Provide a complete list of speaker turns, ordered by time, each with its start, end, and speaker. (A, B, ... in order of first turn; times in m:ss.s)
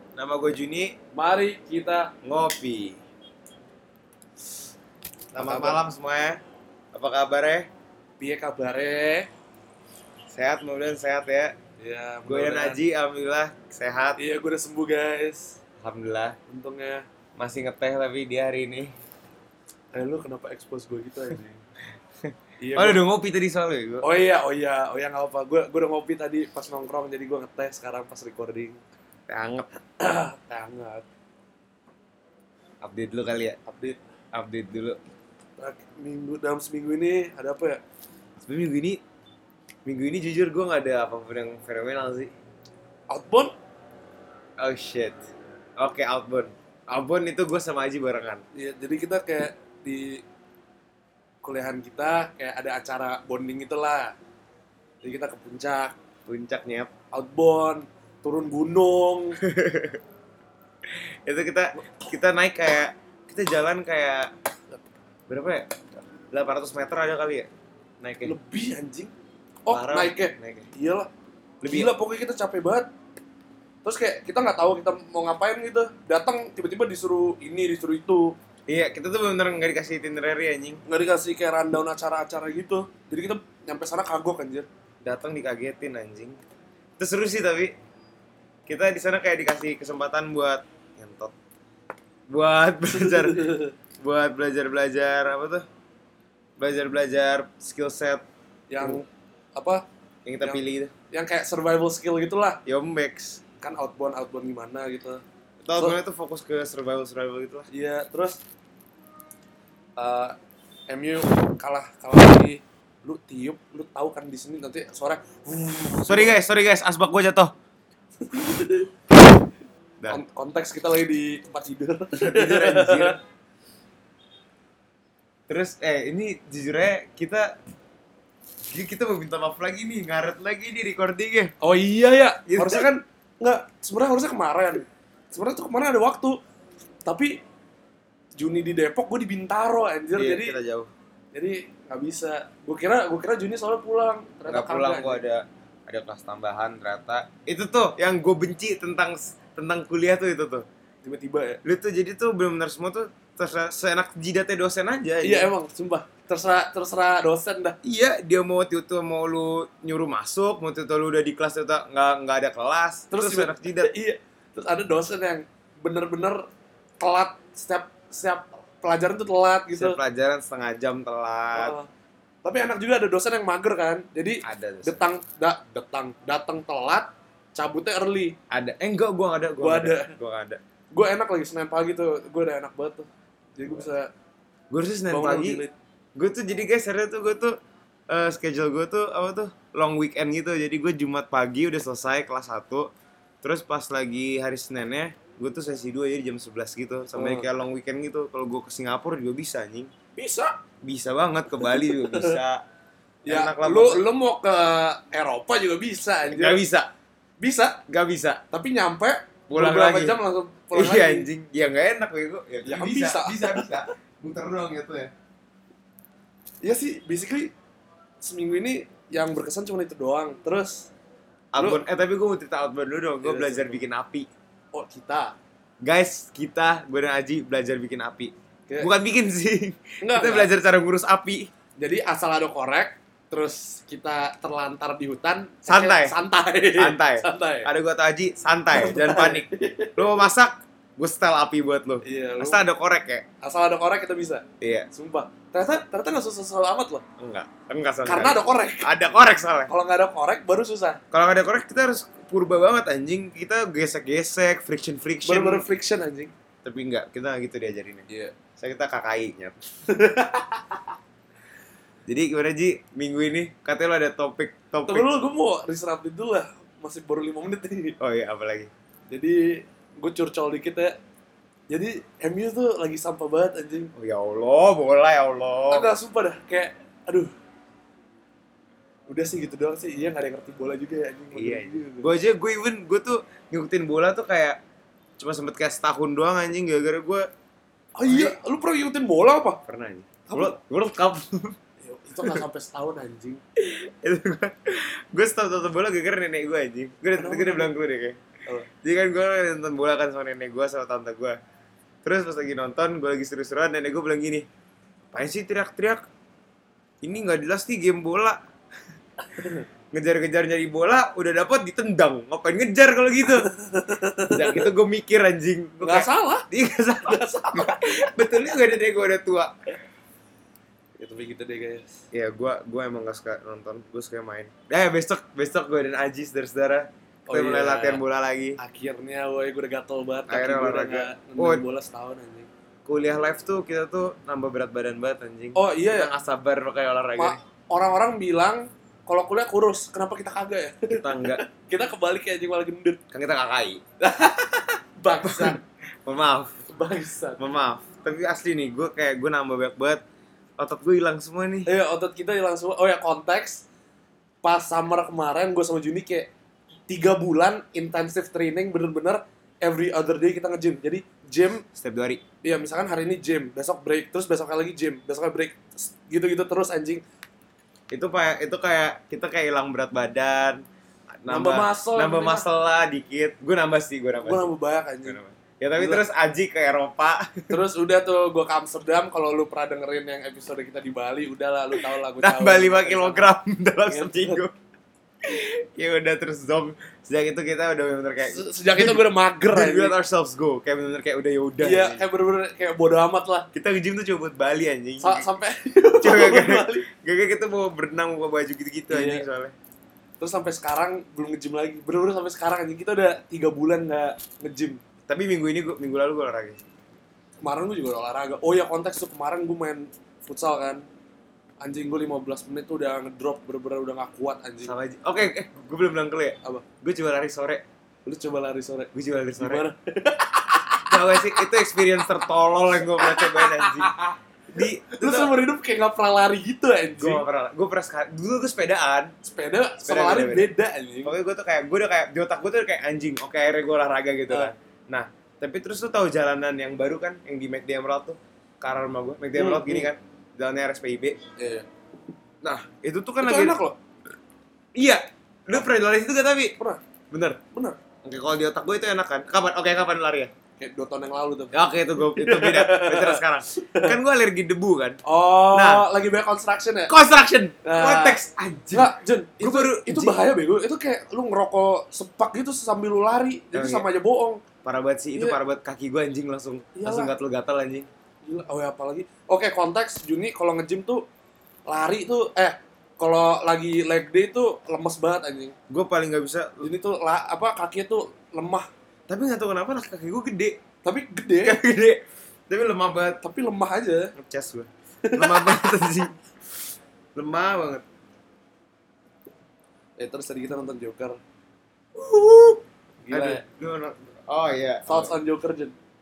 0:00.2-0:00.9 A
0:01.1-0:02.1 B
0:02.2-0:03.0 A
0:05.3-0:06.4 A
0:05.4-0:05.8 B
0:06.9-0:07.7 A
0:08.2-0:09.3 B
0:10.3-0:11.6 A
0:11.8-0:12.8 B
0:12.3-0:14.2 A
0:14.2-0:15.6 B
0:15.8-0:16.4 A
0:16.5-0:17.0 B
0:17.4-0:18.9 A
0:19.9-0:21.6 B
0:22.2-0:24.0 A
0:22.6-0:23.0 B
0:24.0-0:28.8 B
0:29.3-0:29.7 A
0:30.0-0:31.0 B
0:32.8-0:33.6 A
0:33.6-0:34.0 B
0:34.3-0:35.0 A
0:35.6-0:37.8 B
0:38.4-0:39.0 A
0:39.8-0:42.3 A
0:43.1-0:43.5 B
0:44.6-0:45.2 A
0:45.8-0:48.4 A
0:48.5-0:50.2 B
0:51.4-0:54.1 B
0:55.0-0:55.9 B
0:56.3-0:56.9 A
0:57.1-0:59.4 B
0:59.4-1:00.0 A
1:00.8-1:04.3 A
1:05.3-1:07.5 A
1:08.0-1:08.3 A
1:08.2-1:09.1 B
1:09.6-1:11.1 B
1:09.7-1:10.7 A
1:11.6-1:11.9 A
1:11.6-1:12.9 B
1:13.8-1:18.4 B
1:18.7-1:20.8 A
1:20.8-1:24.7 B
1:25.0-1:26.4 A
1:27.0-1:27.7 A
1:28.7-1:31.3 A
1:32.3-1:33.4 A
1:32.9-1:33.7 B
1:34.0-1:35.6 A
1:36.6-1:38.2 A
1:38.7-1:39.8 B
1:40.2-1:40.9 A
1:41.1-1:42.6 B
1:42.6-1:43.4 A
1:43.6-1:45.2 B
1:45.6-1:47.7 A
1:47.7-1:48.4 B
1:50.0-1:50.4 B
1:50.9-1:56.4 B
1:56.0-1:57.5 A
1:58.2-1:58.9 B
2:00.1-2:03.2 B
2:02.2-2:03.2 A
2:05.5-2:07.6 A
2:08.7-2:11.5 A
2:11.6-2:16.4 B
2:12.4-2:12.8 A
2:17.0-2:17.4 B
2:18.4-2:20.6 B
2:20.1-2:20.9 A
2:21.3-2:25.2 B
2:24.5-2:30.6 A
2:31.0-2:31.6 B
2:31.6-2:35.5 A
2:35.2-2:37.8 B
2:37.8-2:43.9 A
2:43.1-2:46.5 B
2:47.0-2:50.0 B
2:49.7-2:51.8 A
2:51.5-2:51.9 B
2:52.4-2:58.4 B
2:54.4-2:55.0 A
2:58.5-3:00.6 A
2:59.6-3:00.1 B
3:00.9-3:04.1 B
3:04.7-3:05.6 A
3:05.1-3:05.7 B
3:06.2-3:07.6 A
3:08.1-3:12.9 A
3:13.4-3:19.9 A
3:17.1-3:17.5 B
3:20.1-3:20.6 B
3:20.8-3:22.6 A
3:21.6-3:22.4 B
3:23.2-3:26.6 B
3:23.3-3:24.0 A
3:26.2-3:26.9 A
3:27.4-3:27.8 B
3:27.9-3:28.4 A
3:28.5-3:31.3 B
3:29.5-3:30.2 A
3:30.7-3:35.1 A
3:32.6-3:33.9 B
3:36.6-3:37.5 B
3:38.2-3:40.9 B
3:41.5-3:44.3 A
3:41.6-3:41.8 B
3:43.2-3:43.8 B
3:44.7-3:45.3 B
3:45.8-3:51.5 A
3:50.0-3:50.5 B
3:51.8-3:57.7 B
3:55.6-3:56.2 A
3:56.8-4:03.2 A
3:58.7-4:00.3 B
4:02.0-4:02.6 B
4:03.4-4:07.0 B
4:04.6-4:04.9 A
4:07.2-4:09.7 A
4:08.0-4:08.9 B
4:09.7-4:11.0 B
4:11.1-4:15.6 A
4:15.2-4:16.3 B
4:16.6-4:18.0 A
4:18.1-4:18.4 B
4:18.6-4:19.6 A
4:19.9-4:20.9 B
4:22.1-4:25.1 A
4:24.9-4:28.0 B
4:28.0-4:28.7 A
4:29.1-4:31.0 B
4:31.7-4:33.9 B
4:34.0-4:35.9 A
4:35.7-4:37.3 B
4:39.1-4:42.1 B
4:41.3-4:44.6 A
4:45.2-4:47.3 A
4:48.0-4:49.6 B
4:48.1-4:48.4 A
4:49.7-4:51.6 A
4:50.3-4:50.6 B
4:51.8-4:53.4 B
4:53.6-4:58.2 A
4:57.2-4:57.7 B
4:58.7-5:01.4 A
5:02.0-5:04.4 A
5:05.1-5:06.0 A
5:07.0-5:08.4 A
5:09.4-5:09.6 B
5:09.9-5:13.5 A
5:13.4-5:14.7 B
5:14.3-5:19.5 A
5:15.8-5:16.5 B
5:17.0-5:18.2 B
5:21.0-5:22.0 B
5:22.1-5:28.6 A
5:27.3-5:28.0 B
5:28.6-5:32.5 B
5:30.3-5:31.6 A
5:32.8-5:37.4 A
5:35.5-5:36.1 B
5:37.2-5:43.0 B
5:40.9-5:41.4 A
5:43.1-5:43.8 A
5:44.0-5:45.6 B
5:45.2-5:46.6 A
5:46.7-5:47.4 B
5:47.4-5:50.0 A
5:50.6-5:51.7 A
5:51.6-5:53.6 B
5:54.4-5:56.3 B
5:56.9-6:01.6 B
6:01.7-6:02.2 A
6:02.4-6:07.0 B
6:07.9-6:14.5 A
6:11.3-6:12.4 B
6:14.2-6:15.2 B
6:15.0-6:17.6 A
6:15.8-6:16.0 B
6:17.5-6:23.3 B
6:21.8-6:24.5 A
6:23.9-6:24.4 B
6:25.2-6:32.0 A
6:28.2-6:30.0 B
6:31.6-6:33.5 B
6:33.5-6:35.2 A
6:35.0-6:36.8 B
6:36.0-6:39.5 A
6:38.9-6:39.2 B
6:40.2-6:44.8 B
6:45.1-6:46.6 A
6:47.4-6:50.8 B
6:51.6-6:54.7 B
6:54.6-6:57.6 A
6:58.0-7:07.2 B
6:58.9-6:59.6 A
7:00.9-7:04.0 A
7:04.5-7:05.3 A
7:07.0-7:09.1 A
7:09.2-7:11.1 B
7:09.8-7:10.5 A
7:11.0-7:21.2 A
7:19.3-7:19.9 B
7:21.4-7:21.7 B
7:22.4-7:23.6 A
7:23.2-7:23.8 B
7:24.8-7:26.6 A
7:27.1-7:27.4 A
7:27.5-7:27.8 B
7:28.0-7:30.3 A
7:30.6-7:33.9 B
7:31.5-7:35.0 A
7:35.0-7:36.9 B
7:35.5-7:35.8 A
7:36.9-7:40.2 A
7:37.6-7:38.2 B
7:38.7-7:44.4 B
7:43.5-7:43.9 A
7:44.6-7:47.9 A
7:46.7-7:47.1 B
7:48.2-7:51.0 B
7:51.7-7:55.5 B
7:55.7-7:56.7 A
7:56.6-7:58.7 B
7:59.1-8:00.6 A
8:00.8-8:01.6 B
8:01.4-8:03.2 A
8:03.2-8:04.1 B
8:04.2-8:06.1 A
8:05.0-8:05.8 B
8:07.1-8:07.8 A
8:10.0-8:11.2 B
8:11.9-8:15.1 A
8:13.0-8:13.4 B
8:14.8-8:15.7 B